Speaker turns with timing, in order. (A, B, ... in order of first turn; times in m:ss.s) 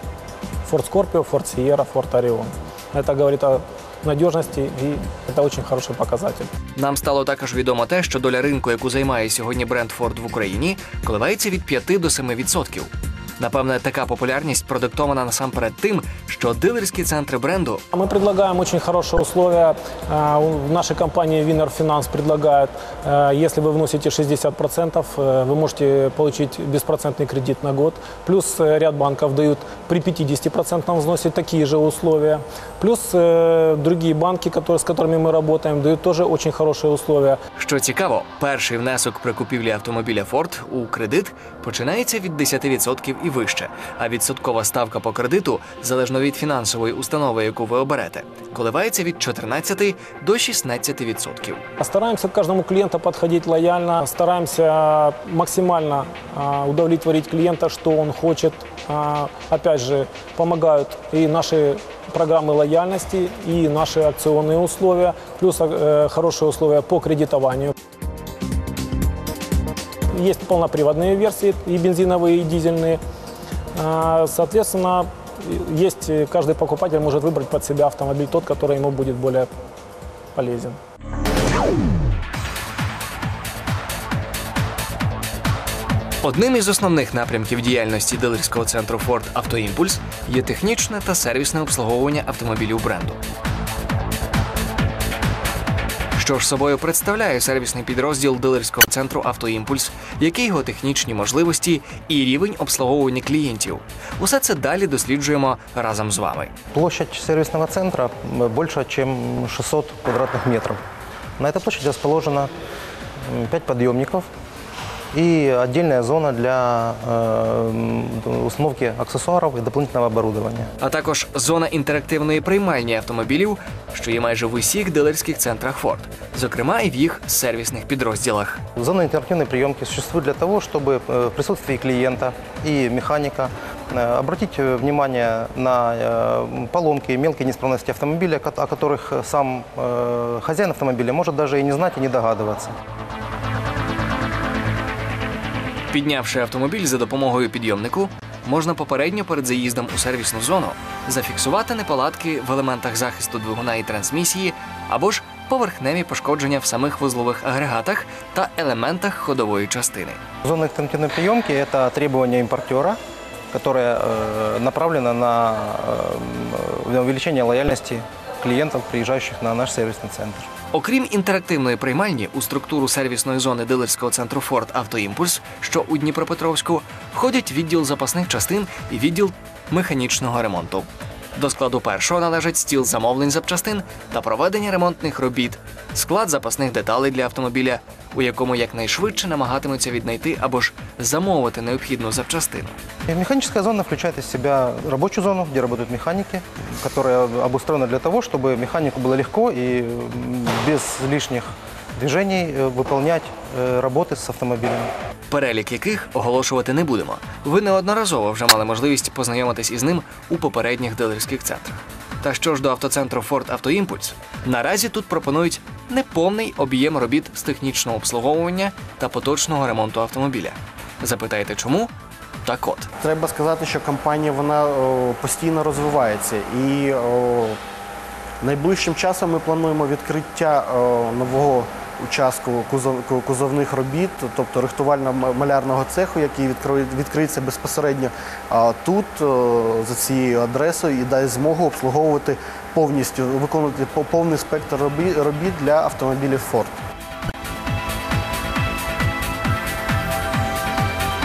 0:00.6-0:06.5 A
0:06.8-0:17.8 B
0:17.9-0:37.4 A
0:37.6-0:51.6 B
0:51.8-1:07.7 A
1:10.1-1:13.0 A
1:13.7-1:19.5 A
1:20.3-1:20.8 A
1:26.2-1:33.2 B
1:36.2-1:46.5 B
1:46.7-1:50.8 C
1:51.4-1:52.5 C
1:53.2-1:54.3 C
1:55.1-2:00.7 C
2:00.8-2:08.6 B
2:08.8-2:22.7 C
2:25.9-2:40.2 B
2:40.4-2:43.0 C
2:43.5-2:50.5 C
2:50.7-3:12.8 B
3:13.1-3:24.9 C
3:25.3-3:41.9 B
3:42.4-3:42.9 B
3:43.0-3:47.6 D
3:48.4-4:06.7 D